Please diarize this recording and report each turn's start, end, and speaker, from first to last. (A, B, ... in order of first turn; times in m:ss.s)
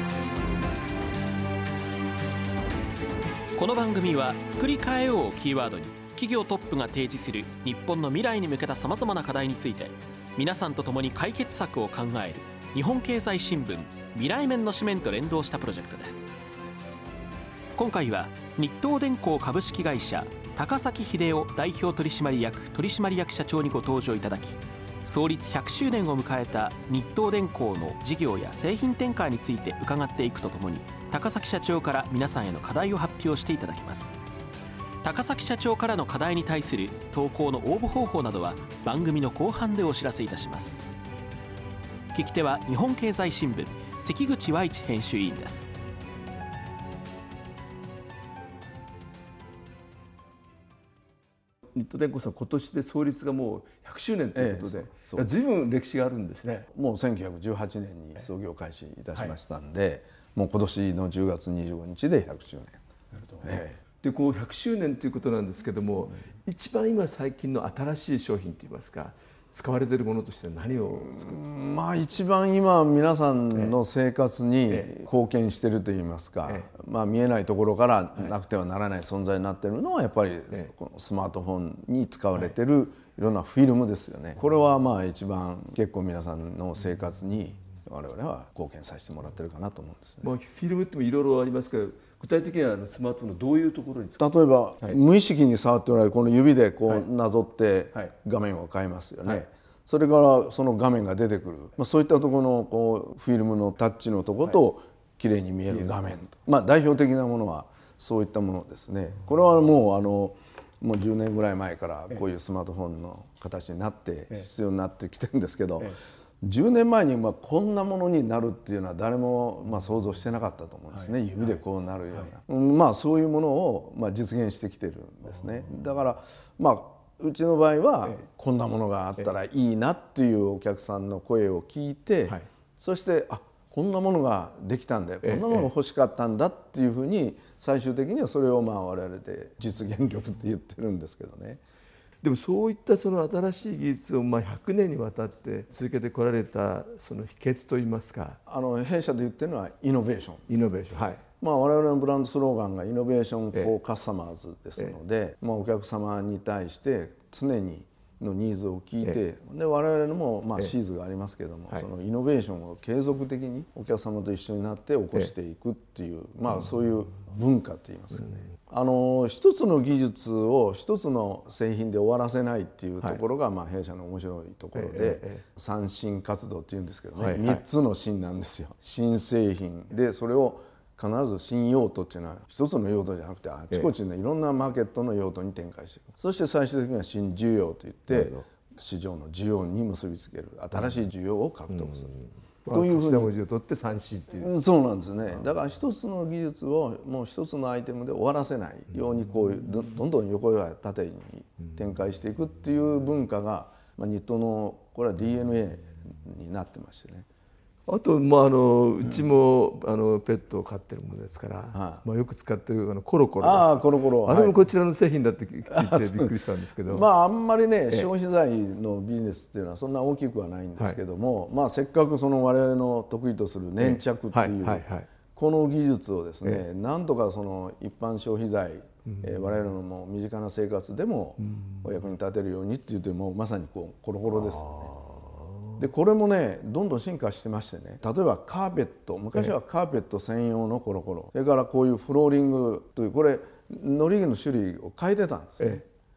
0:03.6-0:16.3 A
0:17.8-0:34.1 A
0:35.0-0:40.8 A
0:42.1-0:45.7 A
0:51.7-0:56.7 B
0:54.3-0:55.3 C
0:56.7-1:02.8 C
1:03.4-1:03.8 C
1:04.0-1:11.2 B
1:10.9-1:30.3 C
1:30.2-1:34.2 B
1:34.2-2:21.6 C
2:15.2-2:15.6 B
2:22.2-2:28.4 B
2:28.5-3:12.1 C
2:30.5-2:31.2 B
2:54.8-2:55.4 B
2:57.2-2:57.6 B
3:08.1-3:08.4 B
3:11.7-3:14.5 B
3:12.7-3:13.3 C
3:14.3-3:27.2 C
3:27.9-3:37.1 B
3:31.7-3:32.0 C
3:33.4-3:34.6 C
3:35.7-3:36.3 C
3:36.8-3:54.9 C
3:43.8-3:45.0 B
3:51.5-3:51.8 B
3:54.6-3:55.7 B
3:55.8-4:05.9 C